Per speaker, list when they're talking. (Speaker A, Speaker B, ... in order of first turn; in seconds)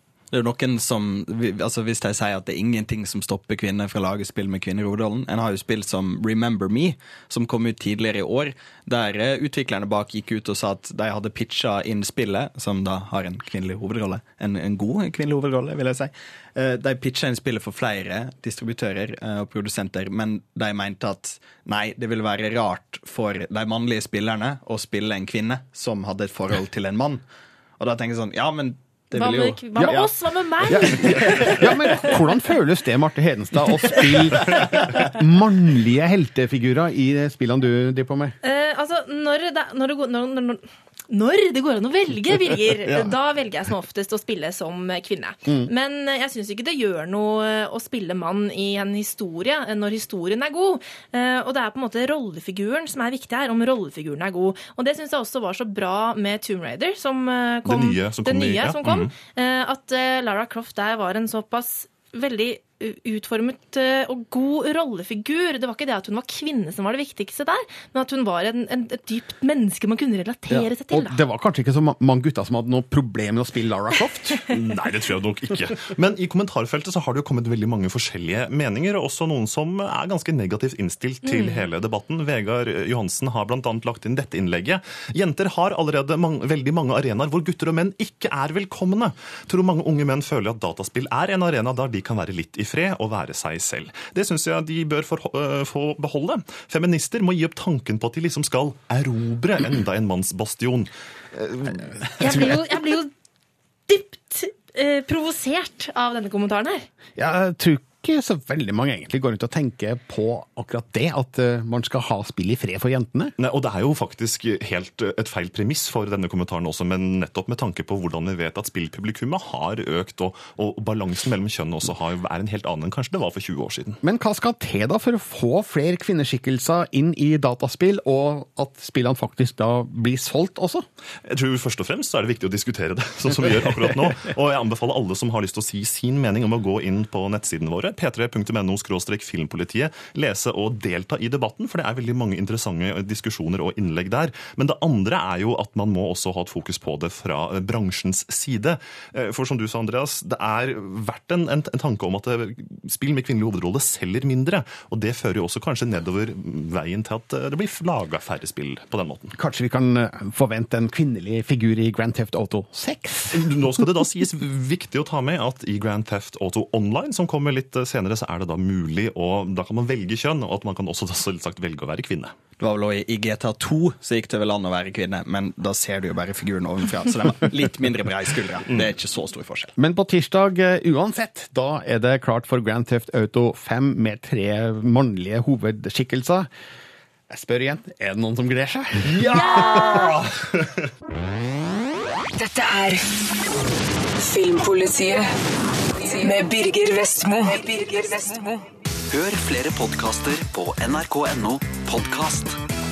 Speaker A: 0.3-27.2, 27.8-30.1, 30.7-31.4, 172.6-179.7
Speaker B: 29.1-32.6, 38.4-71.2, 81.3-81.6, 102.2-103.1, 103.9-106.9, 189.3-190.1
Speaker C: 30.6-38.4, 70.5-74.4, 107.2-113.3, 124.0-130.8, 159.3-163.4, 179.8-186.5, 187.3-189.8
Speaker D: 57.6-59.1, 74.5-102.6, 113.4-124.0, 131.2-159.3, 163.3-172.3, 189.1-190.7
Speaker E: 192.3-193.0, 194.2-195.4, 196.0-198.6
Speaker F: 199.1-202.6